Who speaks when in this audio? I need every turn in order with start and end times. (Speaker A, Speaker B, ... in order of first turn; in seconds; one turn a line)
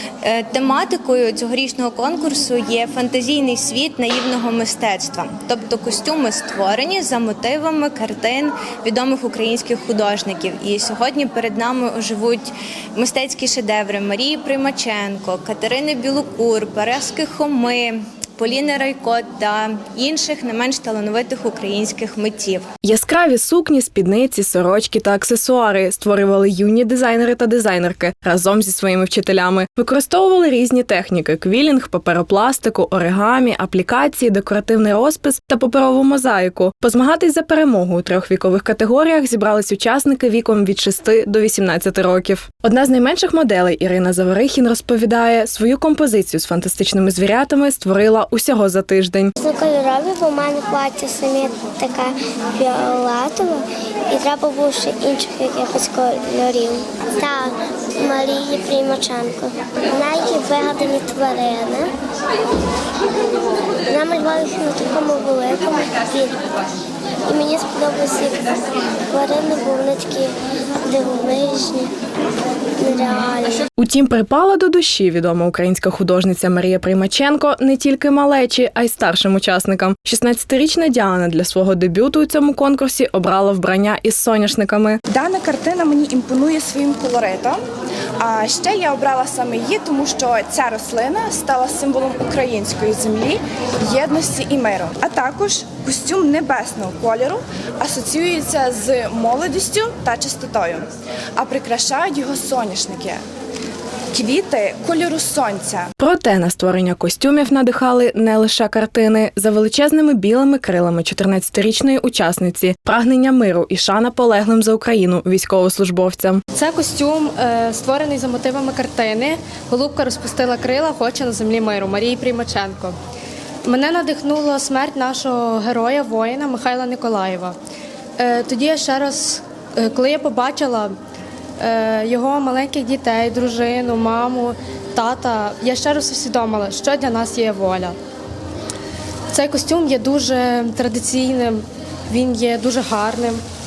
Speaker A: 0.2-22.7
Speaker B: 22.8-49.3
Speaker C: 49.4-61.9
Speaker C: 63.9-66.4
Speaker C: 67.3-70.3
Speaker C: 70.8-71.9
Speaker C: 72.8-73.7
Speaker B: 73.8-85.0
Speaker D: 85.1-87.6
Speaker D: 88.2-103.2
Speaker D: 104.1-105.9
Speaker B: 106.0-116.4
Speaker E: 116.5-123.0
Speaker E: 123.6-127.5
Speaker E: 128.2-130.9
Speaker E: 131.6-137.9
Speaker E: 139.3-143.4